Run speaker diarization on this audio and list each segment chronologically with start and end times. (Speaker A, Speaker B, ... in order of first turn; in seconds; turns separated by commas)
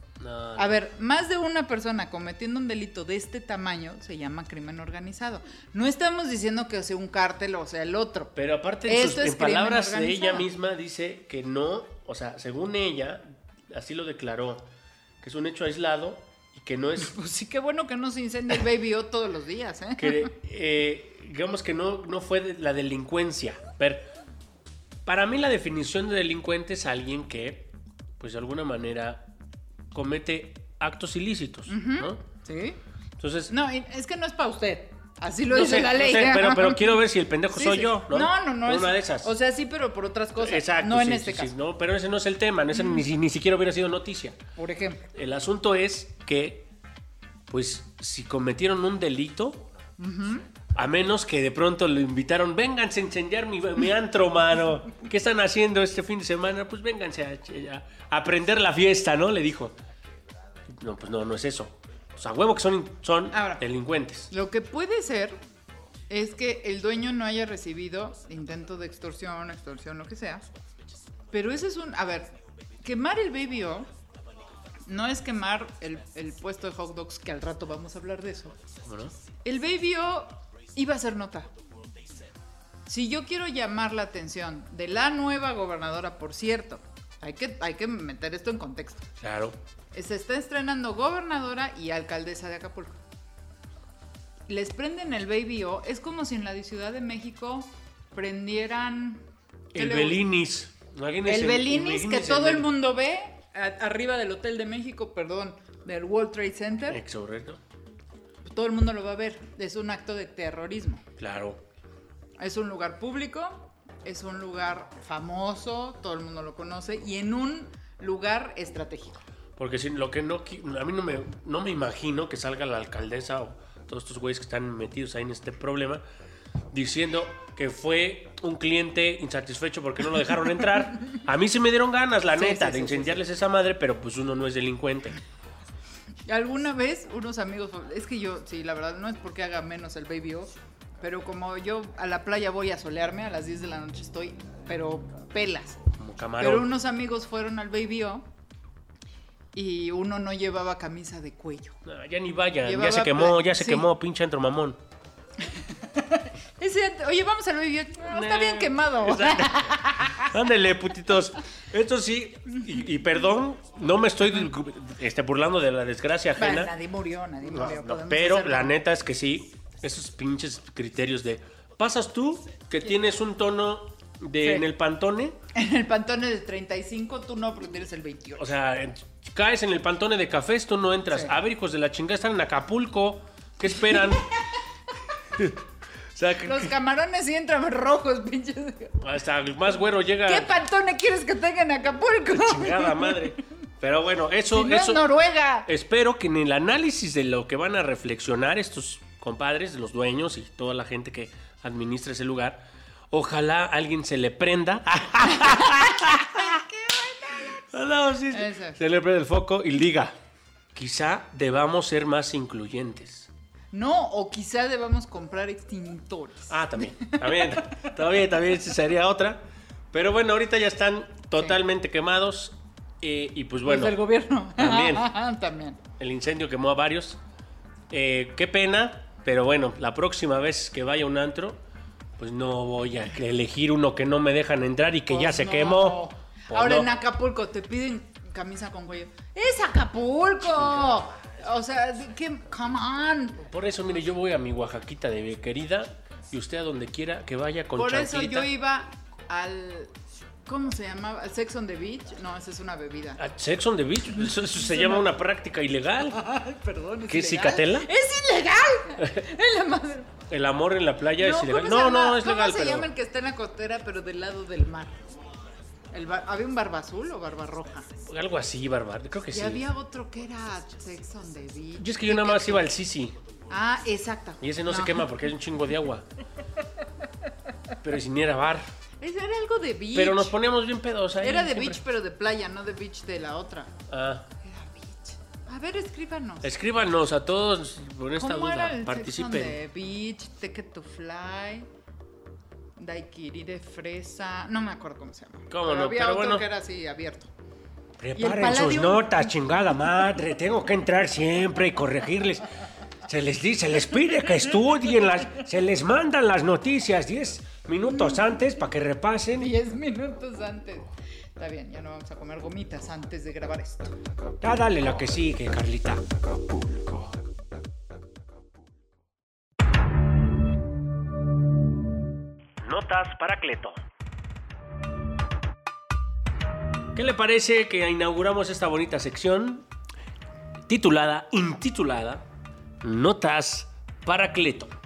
Speaker A: 0.2-0.8, Speaker B: 0.6-8.3, Speaker A: 8.3-14.7, Speaker B: 8.9-10.5, Speaker A: 15.2-17.1, Speaker B: 17.0-20.3, Speaker A: 20.0-24.1, Speaker A: 25.0-29.3, Speaker A: 29.9-32.2, Speaker B: 31.7-32.8, Speaker A: 33.2-33.5, Speaker B: 33.5-37.0, Speaker A: 35.5-39.3, Speaker B: 37.5-41.5, Speaker A: 40.4-44.4, Speaker B: 42.7-43.0, Speaker B: 44.6-45.0, Speaker A: 45.1-46.7, Speaker A: 47.5-49.6, Speaker B: 50.0-50.4, Speaker A: 50.7-59.8, Speaker A: 60.7-64.3, Speaker B: 63.3-63.6, Speaker B: 64.3-65.4, Speaker B: 66.1-70.4, Speaker B: 71.3-73.9, Speaker B: 74.9-78.6, Speaker A: 78.8-79.1, Speaker B: 79.4-81.5, Speaker B: 82.9-89.1, Speaker A: 89.2-89.6, Speaker B: 89.9-93.0, Speaker B: 94.5-99.2, Speaker B: 99.7-100.2, Speaker A: 99.7-102.7, Speaker B: 101.2-107.0, Speaker A: 106.9-107.6, Speaker B: 108.4-111.0, Speaker A: 111.2-111.6, Speaker B: 112.4-119.2, Speaker A: 119.6-126.0, Speaker A: 126.7-135.2, Speaker B: 132.3-133.2, Speaker B: 136.2-145.8, Speaker A: 146.0-146.7, Speaker B: 146.4-148.2, Speaker B: 149.5-151.8, Speaker A: 151.8-154.8, Speaker B: 152.6-153.9, Speaker B: 155.5-160.3, Speaker A: 158.1-166.7, Speaker B: 166.4-168.8, Speaker A: 167.4-175.4, Speaker B: 174.4-174.7, Speaker B: 175.5-178.5, Speaker A: 178.4-184.3, Speaker B: 183.9-184.2, Speaker A: 186.1-186.7, Speaker B: 186.4-189.0, Speaker A: 189.0-190.5, Speaker B: 190.2-193.3, Speaker A: 192.3-195.1, Speaker B: 194.5-195.7, Speaker A: 195.7-206.6, Speaker B: 205.4-207.6, Speaker A: 207.6-210.2, Speaker B: 208.3-208.8, Speaker A: 210.7-213.3, Speaker B: 213.7-217.8, Speaker A: 216.5-224.0, Speaker B: 223.6-225.8, Speaker A: 224.6-225.1, Speaker A: 226.0-227.2, Speaker A: 227.9-231.6, Speaker A: 232.2-236.9, Speaker B: 235.1-243.4, Speaker A: 243.4-248.5, Speaker B: 247.8-249.9, Speaker B: 250.4-253.2, Speaker A: 253.2-256.2, Speaker B: 254.2-255.1, Speaker B: 256.1-260.1, Speaker A: 257.1-257.9, Speaker A: 260.3-262.9, Speaker B: 261.2-265.0, Speaker B: 265.9-267.9, Speaker A: 268.1-269.6, Speaker B: 269.3-272.7, Speaker A: 271.8-273.1, Speaker B: 273.5-275.1, Speaker A: 274.4-276.1, Speaker A: 277.8-278.6, Speaker B: 279.0-280.3, Speaker A: 279.9-281.8, Speaker B: 281.2-283.7, Speaker A: 283.9-284.3, Speaker B: 284.4-286.5, Speaker A: 286.4-289.6, Speaker B: 288.2-291.7, Speaker B: 292.8-297.3, Speaker A: 295.5-296.5, Speaker C: 298.0-302.4, Speaker B: 298.1-299.3, Speaker C: 303.1-309.5, Speaker A: 304.0-305.4, Speaker B: 307.9-308.2, Speaker B: 309.4-313.9, Speaker C: 314.4-316.0, Speaker A: 322.6-323.8, Speaker A: 326.9-329.6, Speaker A: 330.7-332.2, Speaker A: 332.8-334.7